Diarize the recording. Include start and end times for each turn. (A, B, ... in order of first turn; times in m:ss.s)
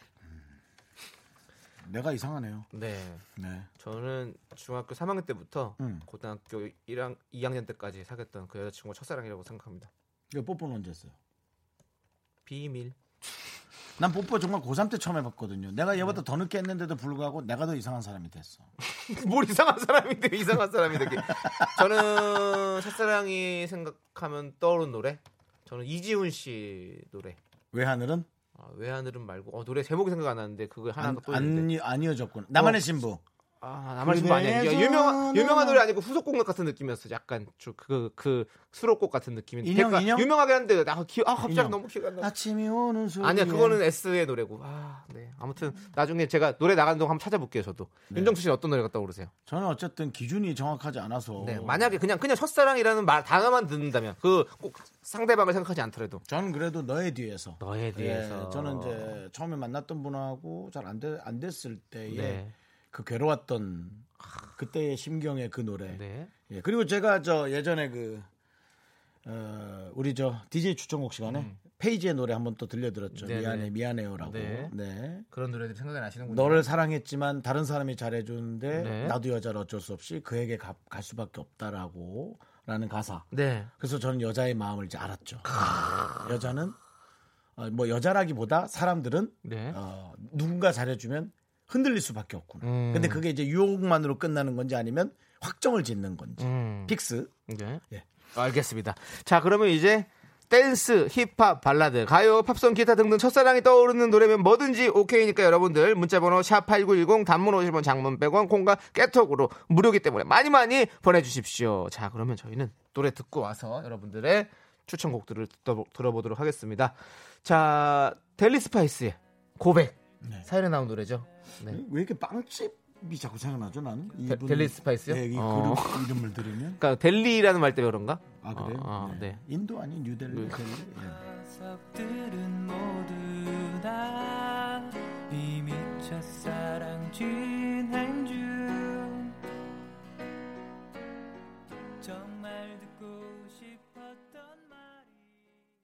0:01.8-0:02.7 A
0:02.7-0:03.2 B
0:03.4-0:03.7 A
0:03.8-0:09.9 B
0:05.8-0:06.0 A
0:10.3-0:11.1 A
0:12.4-0:12.9 B
0:14.0-0:18.7 A
0:18.8-0:27.4 B
0:21.1-0:21.8 A
0:27.7-0:28.3 A
0:28.6-0:31.7 B
0:31.0-0:33.2 A
0:32.5-0:32.8 B
0:33.6-0:42.3 B
0:34.0-0:35.8 A
0:39.6-0:40.3 A
0:41.4-0:43.8 A
0:43.2-0:49.3 B
0:48.1-0:48.4 A
0:49.4-0:52.0 A
0:51.4-0:56.2 B
0:56.2-1:08.3 A
0:57.6-0:59.2 B
1:02.1-1:02.5 B
1:05.9-1:06.3 B
1:09.2-1:15.2 A
1:11.3-1:11.6 B
1:13.1-1:14.7 B
1:15.3-1:16.6 B
1:16.3-1:23.3 A
1:18.7-1:19.2 B
1:23.3-1:23.7 B
1:23.8-1:26.8 A
1:25.5-1:26.3 B
1:27.6-1:37.3 A
1:29.4-1:29.8 B
1:32.6-1:33.2 B
1:36.4-1:36.9 B
1:37.5-1:37.8 B
1:38.3-2:01.8 B
2:00.2-2:00.5 A
2:01.6-2:06.8 A
2:04.2-2:06.2 B
2:06.8-2:09.4 B
2:08.4-2:11.2 A
2:10.3-2:10.6 B
2:11.1-2:19.4 C
2:22.0-2:25.2 C